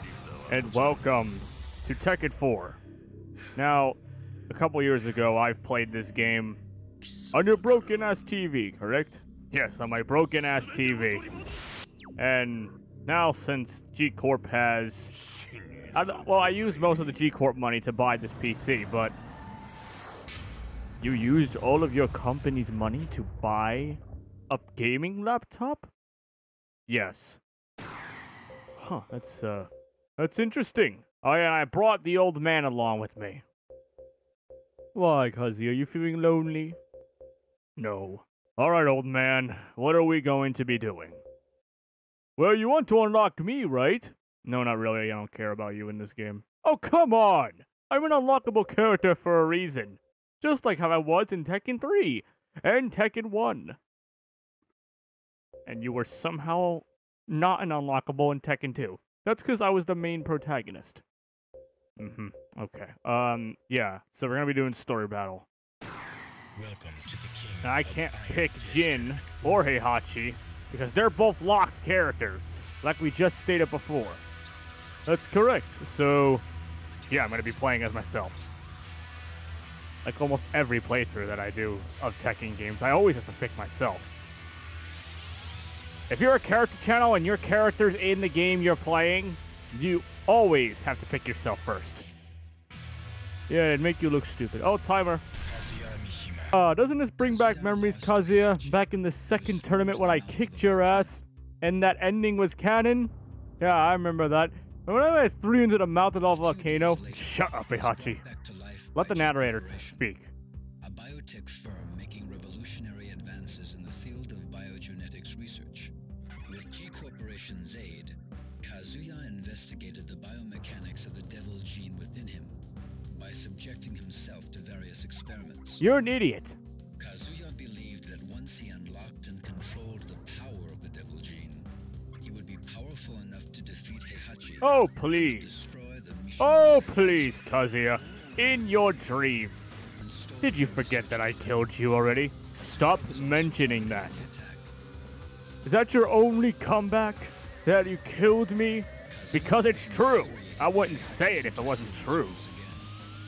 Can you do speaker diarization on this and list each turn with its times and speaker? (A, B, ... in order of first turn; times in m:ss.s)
0:00.5-0:02.8 A
0:03.6-0:06.6 A
0:07.3-0:11.3 A
0:12.2-0:15.2 A
0:15.9-0:19.2 A
0:21.0-0:25.9 A
0:26.9-0:27.4 A
0:28.8-0:33.4 A
0:34.9-0:36.8 A
0:37.8-0:41.2 A
0:42.4-0:53.8 A
0:55.7-1:01.0 A
1:02.0-1:05.5 A
1:06.6-1:09.4 B
1:07.6-1:14.2 A
1:15.1-1:16.4 A
1:17.1-1:18.5 A
1:20.0-1:24.1 A
1:26.1-1:32.0 A
1:33.5-1:35.2 A
1:35.4-1:36.6 B
1:36.5-1:48.2 A
1:37.2-1:41.1 B
1:46.2-1:50.1 B
1:49.0-1:50.3 A
1:50.8-1:55.9 B
1:56.5-2:02.6 B
2:03.1-2:05.8 B
2:05.8-2:06.6 A
2:07.0-2:17.4 B
2:14.6-2:15.7 A
2:16.4-2:19.9 A
2:20.0-2:21.2 B
2:20.4-2:24.2 A
2:22.6-2:24.7 B
2:25.6-2:32.4 A
2:29.0-2:32.9 B